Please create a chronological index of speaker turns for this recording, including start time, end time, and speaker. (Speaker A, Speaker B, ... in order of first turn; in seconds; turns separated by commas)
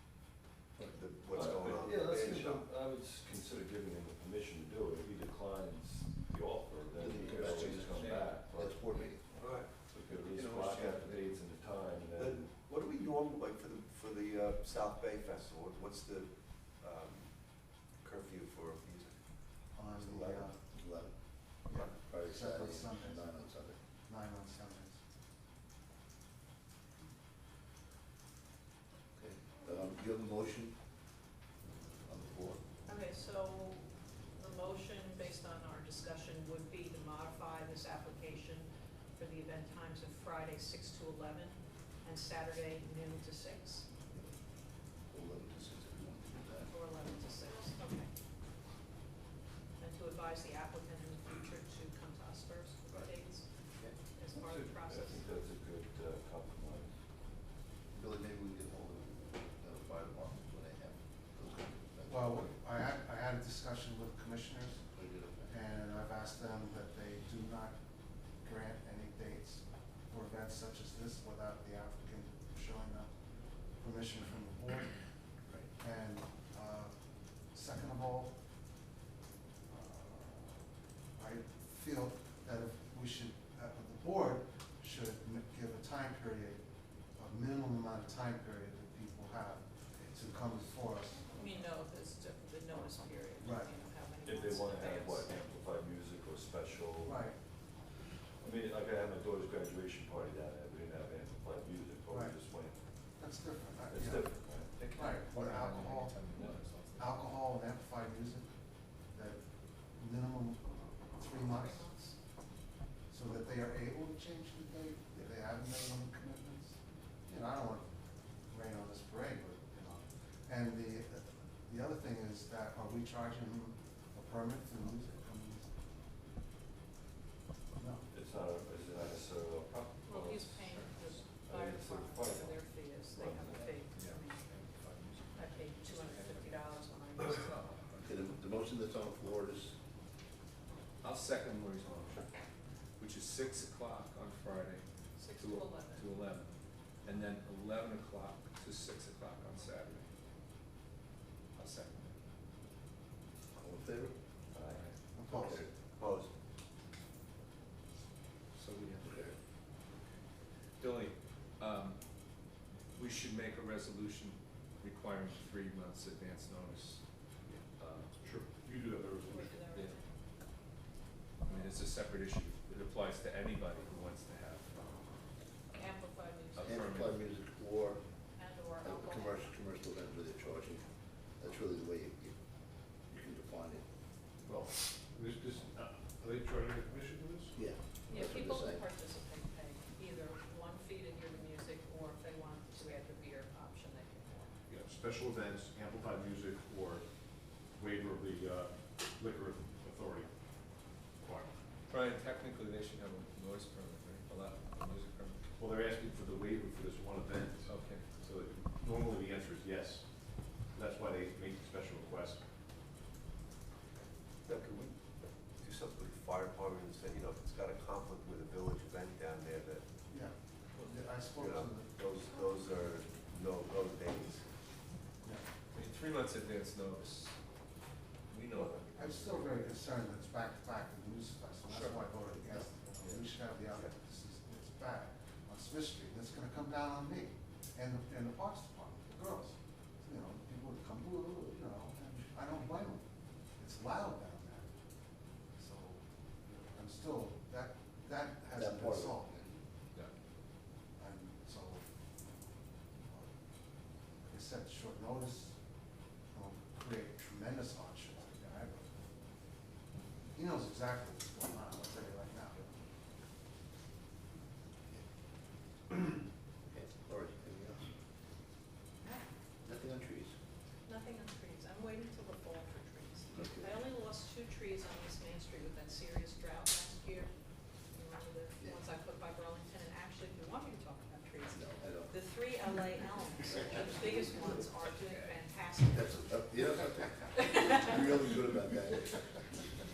Speaker A: 0.8-2.6, Speaker B: 1.3-9.1, Speaker C: 6.9-9.2, Speaker D: 7.3-8.3, Speaker A: 9.3-9.9, Speaker B: 9.7-12.5, Speaker D: 10.2-11.3, Speaker A: 10.6-11.1, Speaker A: 12.2-17.3, Speaker A: 18.0-19.2, Speaker E: 19.7-20.6, Speaker A: 20.0-20.4, Speaker C: 20.1-21.1, Speaker E: 21.7-23.4, Speaker C: 22.0-23.8, Speaker E: 24.1-25.0, Speaker C: 29.1-30.7, Speaker C: 32.0-32.6, Speaker F: 32.9-43.9, Speaker C: 45.1-46.7, Speaker F: 46.7-48.1, Speaker F: 49.8-53.5, Speaker F: 54.0-55.3, Speaker B: 54.3-57.0, Speaker C: 57.9-62.5, Speaker E: 62.1-64.8, Speaker C: 64.9-65.5, Speaker E: 65.5-67.7, Speaker E: 68.4-73.1, Speaker E: 73.8-75.0, Speaker E: 75.8-76.9, Speaker E: 77.5-78.3, Speaker E: 79.7-80.6, Speaker E: 81.2-86.6, Speaker E: 87.2-91.3, Speaker F: 91.2-95.3, Speaker E: 93.4-93.7, Speaker B: 94.2-97.3, Speaker E: 97.0-97.3, Speaker B: 98.4-102.8, Speaker E: 102.1-102.3, Speaker E: 103.2-106.3, Speaker B: 103.9-104.7, Speaker D: 104.7-107.4, Speaker E: 107.0-108.5, Speaker E: 109.1-112.0, Speaker F: 111.3-112.2, Speaker E: 113.1-117.8, Speaker E: 118.5-125.7, Speaker E: 127.7-128.1, Speaker B: 128.1-130.7, Speaker F: 130.0-134.6, Speaker D: 130.6-131.1, Speaker B: 131.3-133.8, Speaker D: 133.9-138.2, Speaker F: 135.3-137.7, Speaker C: 138.0-139.7, Speaker D: 141.0-142.3, Speaker D: 143.0-144.8, Speaker F: 145.2-146.1, Speaker D: 145.4-146.5, Speaker D: 147.0-150.1, Speaker D: 151.6-152.2, Speaker C: 153.5-154.2, Speaker B: 154.5-154.8, Speaker D: 154.7-154.9, Speaker E: 155.1-155.6, Speaker A: 155.3-156.3, Speaker C: 155.3-155.7, Speaker D: 158.6-159.1, Speaker C: 159.0-159.3, Speaker D: 160.8-162.0, Speaker D: 162.9-167.0, Speaker D: 167.8-168.1, Speaker G: 168.2-169.7, Speaker F: 169.3-170.2, Speaker D: 169.7-170.0, Speaker D: 171.4-175.0, Speaker F: 175.7-176.7, Speaker D: 176.6-177.3, Speaker C: 176.6-178.0, Speaker F: 178.4-179.5, Speaker C: 178.8-180.8, Speaker C: 181.4-182.3, Speaker C: 183.1-183.8, Speaker G: 184.4-187.5, Speaker C: 187.5-188.8, Speaker F: 188.1-194.5, Speaker G: 194.7-197.0, Speaker G: 197.6-201.5, Speaker D: 201.9-205.4, Speaker G: 205.6-212.4, Speaker D: 207.6-208.2, Speaker A: 214.4-215.0, Speaker A: 215.6-219.8, Speaker E: 220.1-222.0, Speaker A: 221.3-224.5, Speaker D: 225.7-227.4, Speaker D: 228.3-229.8, Speaker E: 228.9-243.0, Speaker D: 231.6-233.2, Speaker E: 243.6-244.7, Speaker E: 245.5-246.0, Speaker E: 246.6-249.3, Speaker C: 248.5-249.6, Speaker E: 251.0-252.3, Speaker E: 254.2-255.6, Speaker E: 256.3-258.9, Speaker E: 260.3-262.7, Speaker C: 266.7-267.9, Speaker C: 269.6-270.3, Speaker F: 270.9-277.3, Speaker C: 273.3-273.7, Speaker F: 277.9-286.4, Speaker C: 281.5-282.2, Speaker C: 283.8-284.6, Speaker D: 284.8-285.4, Speaker C: 285.9-289.4, Speaker F: 287.3-288.3